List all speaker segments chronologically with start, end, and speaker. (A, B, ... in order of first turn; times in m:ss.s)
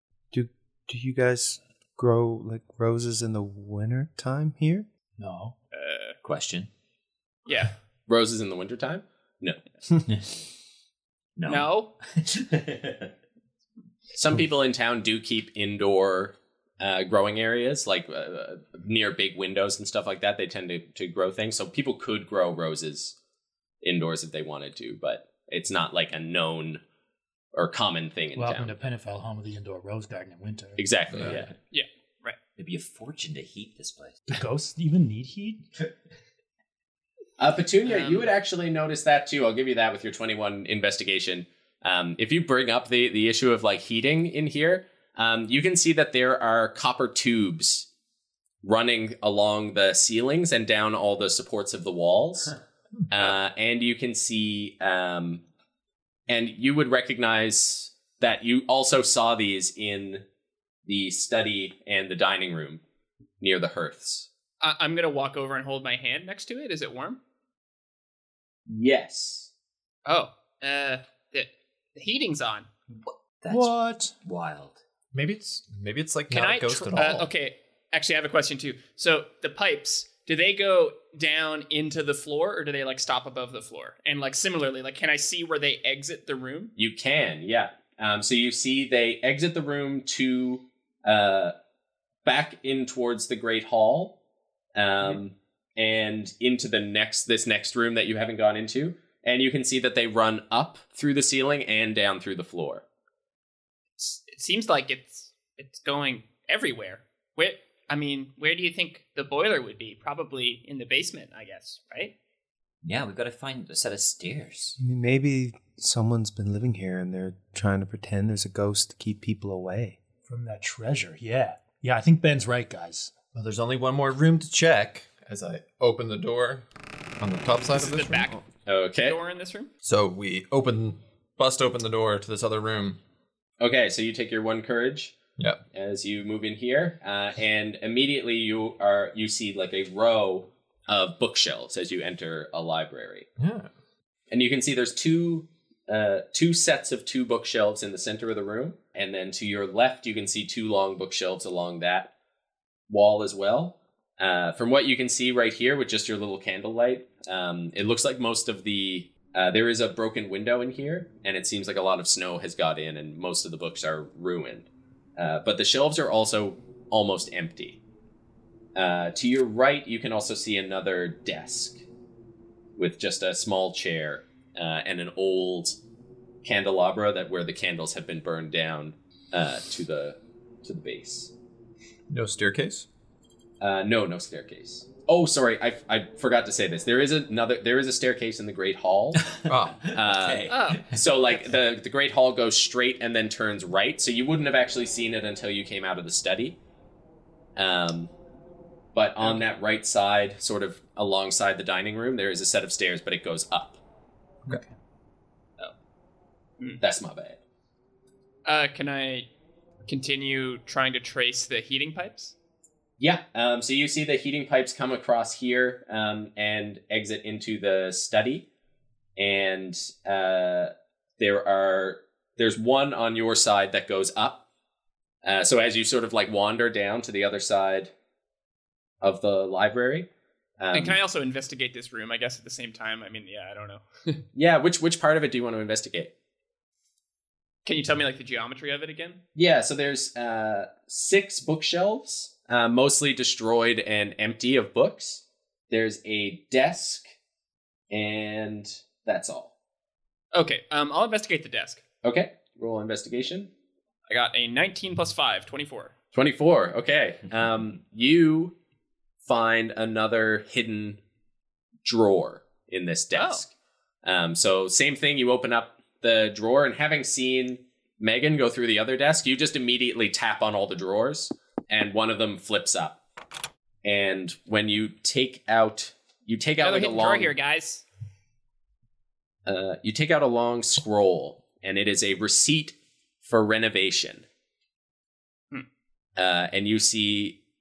0:00.3-0:04.9 A
0:05.2-0:05.6 B
0:05.7-0:06.2 C
0:06.2-0:06.7 D
0:07.5-0:07.7 C
0:08.1-0:09.6 E
0:10.1-0:10.3 D
0:11.4-0:13.1 D
0:11.4-0:11.9 C
0:14.1-0:23.1 E
0:23.8-0:26.8 E
0:27.5-0:28.7 E
0:28.4-0:30.8 B
0:30.8-0:31.5 E
0:31.1-0:31.5 D
0:31.7-0:32.4 C
0:32.6-0:34.3 D
0:34.3-0:35.6 B
0:37.4-0:47.9 E
0:37.8-0:38.3 C
0:48.6-0:52.5 E
0:53.1-0:55.4 E
0:56.3-1:00.2 E
1:00.8-1:02.8 E
1:03.4-1:04.3 E
1:04.6-1:07.2 C
1:08.7-1:09.5 E
1:10.0-1:12.7 C
1:13.0-1:14.8 D
1:13.5-1:14.1 B
1:15.1-1:17.3 F
1:16.3-1:26.7 C
1:26.8-1:31.5 E
1:32.2-1:34.2 E
1:34.7-1:42.8 E
1:44.0-1:52.1 C
1:52.8-1:54.8 D
1:54.8-2:00.0 A
2:00.2-2:03.1 B
2:03.3-2:06.6 F
2:07.2-2:08.3 F
2:07.6-2:08.4 C
2:08.6-2:09.2 E
2:09.0-2:09.7 C
2:09.8-2:13.0 F
2:13.6-2:15.2 E
2:15.7-2:23.3 E
2:23.4-2:23.7 F
2:24.3-2:32.1 E
2:32.9-2:47.8 E
2:48.7-2:51.8 E
2:52.8-2:55.8 E
2:56.4-3:01.3 E
3:02.1-3:02.9 F
3:03.6-3:09.3 E
3:09.2-3:11.0 D
3:09.5-3:09.9 F
3:09.9-3:16.6 E
3:10.5-3:11.4 C
3:17.6-3:18.1 E
3:18.9-3:23.8 E
3:24.4-3:24.7 B
3:26.8-3:27.4 E
3:28.4-3:29.3 C
3:29.8-3:32.3 C
3:33.0-3:38.5 E
3:39.2-3:44.4 E
3:45.2-3:47.9 E
3:49.0-3:51.0 E
3:50.7-3:54.2 C
3:54.3-3:56.1 E
3:57.6-3:59.2 C
3:59.4-4:07.1 E
4:07.9-4:09.5 E
4:10.3-4:11.8 C
4:12.0-4:13.5 E
4:14.1-4:15.9 C
4:16.1-4:18.6 E
4:19.2-4:21.0 E
4:21.8-4:23.5 E
4:23.1-4:23.4 C
4:24.0-4:33.0 E
4:33.8-4:37.3 E
4:36.6-4:37.8 C
4:39.4-4:44.2 E
4:46.2-4:47.4 E